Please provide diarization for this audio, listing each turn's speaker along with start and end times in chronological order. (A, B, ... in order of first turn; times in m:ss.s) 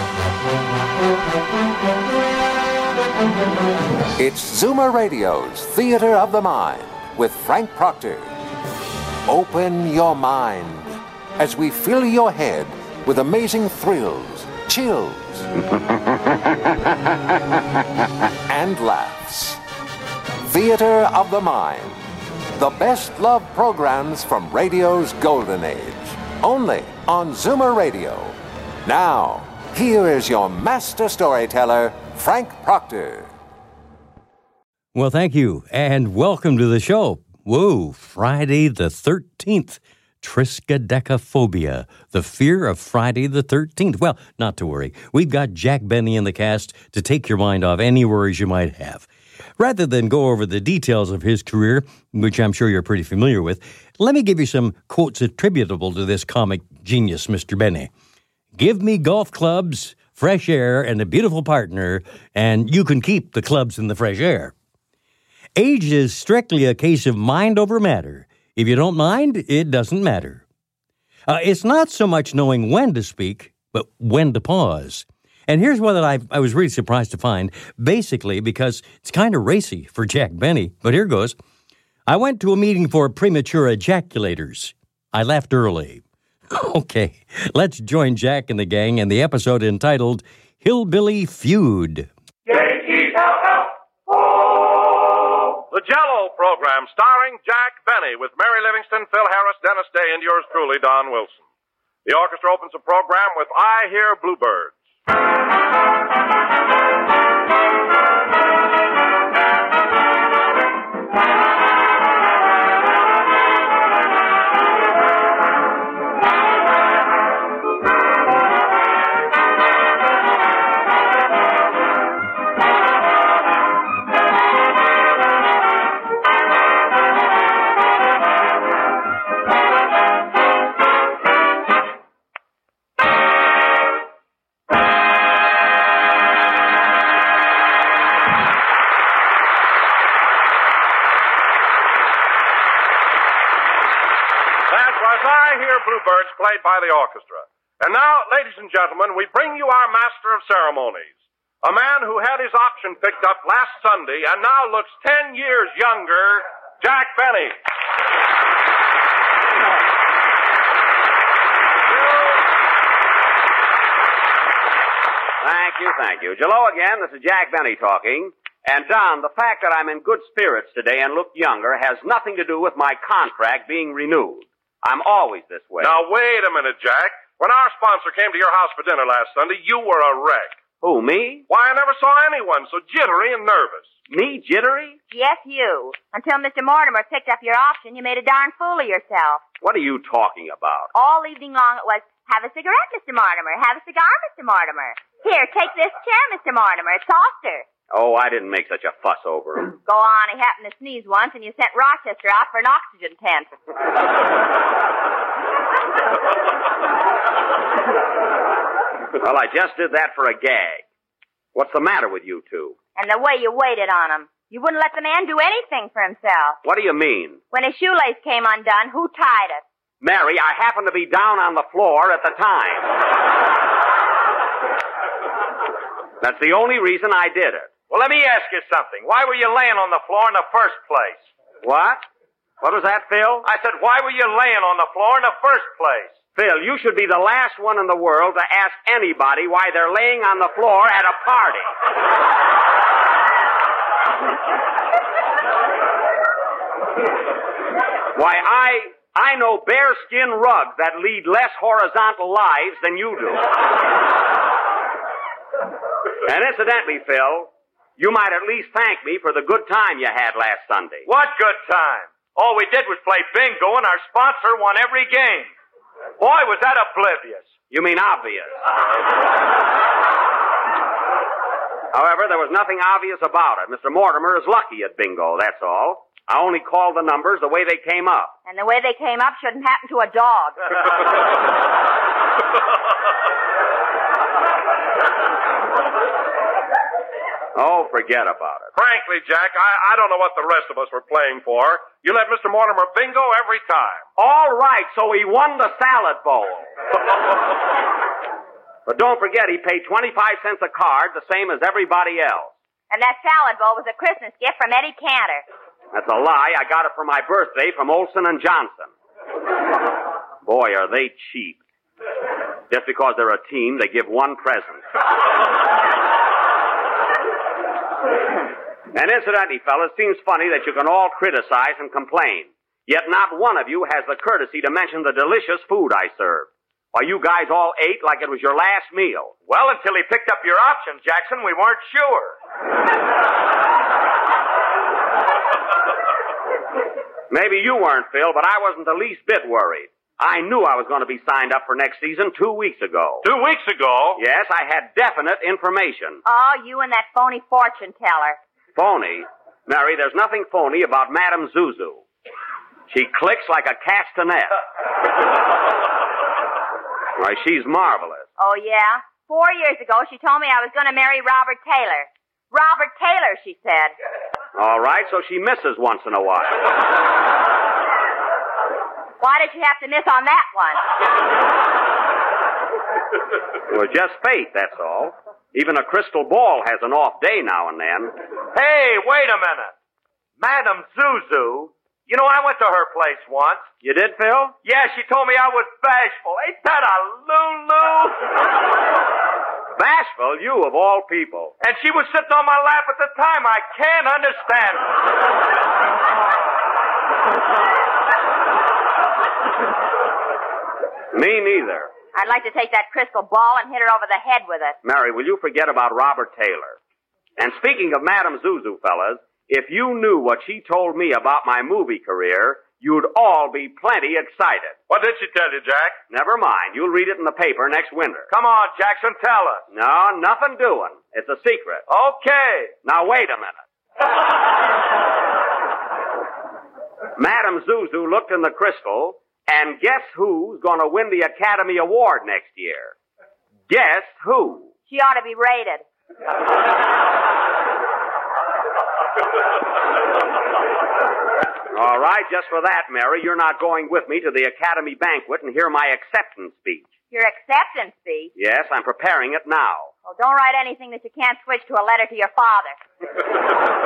0:04.2-0:08.4 A
0:09.2-0:15.5 A
0:18.5-0:19.6 A
0:20.4-0:33.3 A
0:34.9-0:49.1 B
0:49.6-0:57.9 B
0:58.5-1:04.5 B
1:05.6-1:10.4 B
1:11.3-1:21.4 B
1:22.1-1:32.1 B
1:35.7-1:41.4 C
1:42.0-1:44.8 C
2:24.7-2:37.5 C
2:45.4-2:56.0 D
2:55.8-3:00.6 C
3:00.8-3:01.4 D
3:01.5-3:03.9 C
3:04.1-3:05.0 D
3:05.1-3:09.4 E
3:09.6-3:10.9 D
3:10.9-3:17.6 E
3:17.9-3:19.8 D
3:19.8-3:23.5 E
3:29.1-3:30.8 D
3:31.5-3:32.8 D
3:33.0-3:36.6 E
3:36.6-3:37.4 D
3:37.5-3:39.6 E
3:40.0-3:43.0 D
3:46.2-3:47.7 D
3:47.9-3:51.3 F
3:51.6-3:52.1 D
3:52.6-3:53.5 D
3:53.4-3:56.2 F
3:56.3-4:01.7 D
4:08.1-4:13.5 D
4:16.2-4:21.1 D
4:21.0-4:25.5 F
4:26.2-4:27.5 F
4:27.7-4:28.6 D
4:31.9-4:38.3 D
4:38.4-4:40.6 E
4:47.5-4:48.7 D
4:48.7-4:54.0 C
4:54.2-4:56.7 D
4:58.8-5:02.5 D
5:02.9-5:05.4 E
5:05.9-5:08.9 D
5:10.4-5:11.6 D
5:12.7-5:14.8 D
5:18.9-5:29.3 D
5:29.4-5:32.3 F
5:37.3-5:43.2 D
5:43.2-5:44.2 C
5:44.2-5:46.2 D
5:46.2-5:48.4 E
5:48.7-5:52.0 D
5:52.9-5:54.5 D
5:57.2-5:58.3 D
5:58.4-6:03.9 E
6:04.5-6:06.6 D
6:09.2-6:10.8 E
6:13.7-6:18.1 D
6:18.5-6:19.7 F
6:20.4-6:23.7 F
6:23.8-6:24.5 D
6:24.6-6:28.3 F
6:29.7-6:31.5 D
6:31.6-6:34.8 F
6:41.1-6:41.9 D
6:42.1-6:44.8 E
6:44.8-6:46.8 D
6:47.4-6:54.8 D
6:54.9-6:56.0 C
6:56.1-6:58.3 D
6:58.3-6:59.6 F
6:59.7-7:01.8 D
7:01.9-7:02.7 F
7:02.8-7:03.6 D
7:07.2-7:12.9 D
7:13.7-7:14.7 D
7:14.9-7:15.8 E
7:21.7-7:26.9 D
7:27.1-7:28.3 E
7:28.4-7:29.9 D
7:30.0-7:32.8 E